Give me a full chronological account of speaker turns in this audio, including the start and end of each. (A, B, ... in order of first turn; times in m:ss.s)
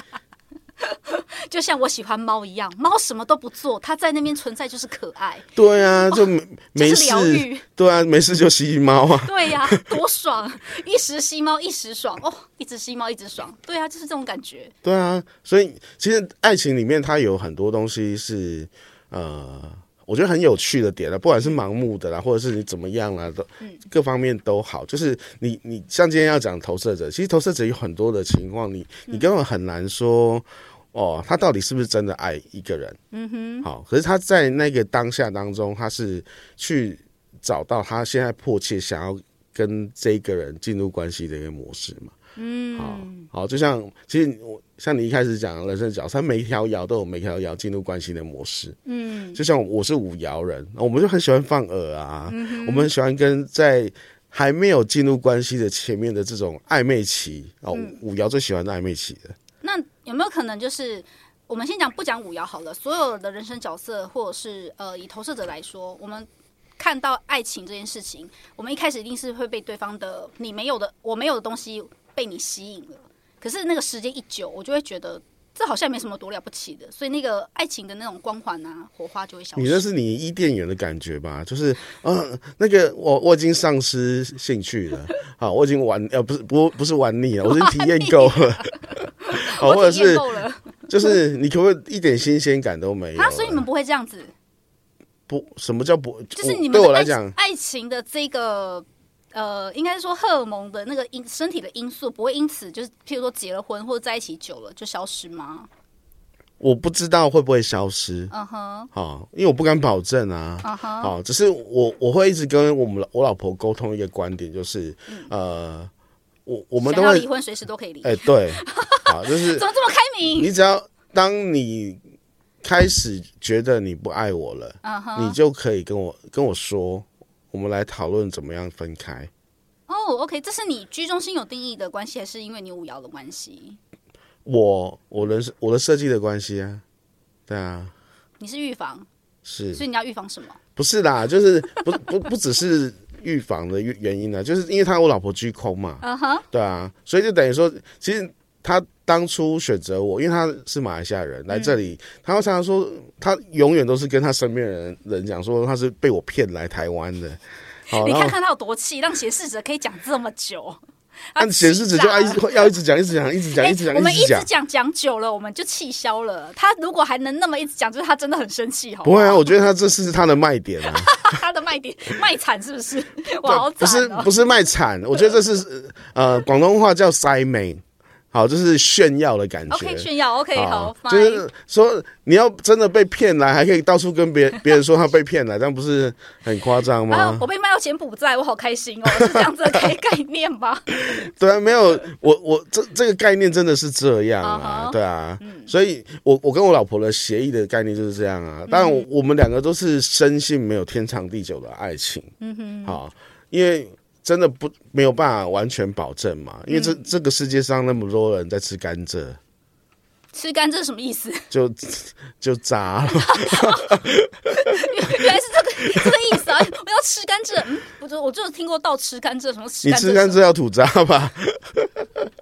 0:00.8-0:05.5 A
0:05.6-0:09.8 B
0:06.1-0:07.6 A
0:09.2-0:14.7 A
0:14.8-0:33.0 B
0:33.1-0:33.7 A
0:33.6-0:42.2 B
0:42.4-0:43.3 A
0:42.8-0:48.8 B
0:48.9-0:49.4 A
0:49.4-0:59.4 B
0:52.3-0:52.9 A
0:57.7-0:58.0 A
0:59.6-1:06.3 A
1:06.8-1:19.8 A
1:19.6-1:30.2 B
1:27.4-1:31.1 A
1:30.9-1:33.6 B
1:33.2-1:34.3 A
1:35.3-1:37.4 B
1:36.4-1:45.7 A
1:46.6-1:48.3 B
1:48.3-1:48.9 A
1:48.9-1:55.9 B
1:50.6-1:51.1 A
1:56.5-1:57.3 B
1:56.8-2:00.5 A
1:58.0-1:59.7 B
2:00.4-2:02.0 B
2:02.6-2:09.3 B
2:04.8-2:05.4 A
2:09.9-2:13.8 A
2:14.4-2:16.8 B
2:17.5-2:17.9 B
2:18.4-2:19.1 A
2:19.4-2:19.8 B
2:19.7-2:20.6 A
2:20.8-2:38.4 B
2:26.0-2:26.4 A
2:31.5-2:31.8 A
2:37.9-2:40.8 A
2:41.3-2:42.7 A
2:41.4-2:44.5 B
2:43.6-2:49.5 A
2:49.0-2:51.2 B
2:50.9-2:54.5 A
2:53.4-3:07.5 B
2:59.7-3:01.5 A
3:07.1-3:11.3 A
3:09.2-3:09.5 B
3:11.0-3:22.3 B
3:14.4-3:15.7 A
3:18.7-3:19.1 A
3:22.4-3:23.0 A
3:22.8-3:29.4 B
3:26.7-3:27.0 A
3:30.3-3:31.5 A
3:31.5-3:35.3 B
3:33.1-3:34.0 A
3:34.5-3:40.4 A
3:36.0-3:36.4 B
3:39.8-3:42.2 B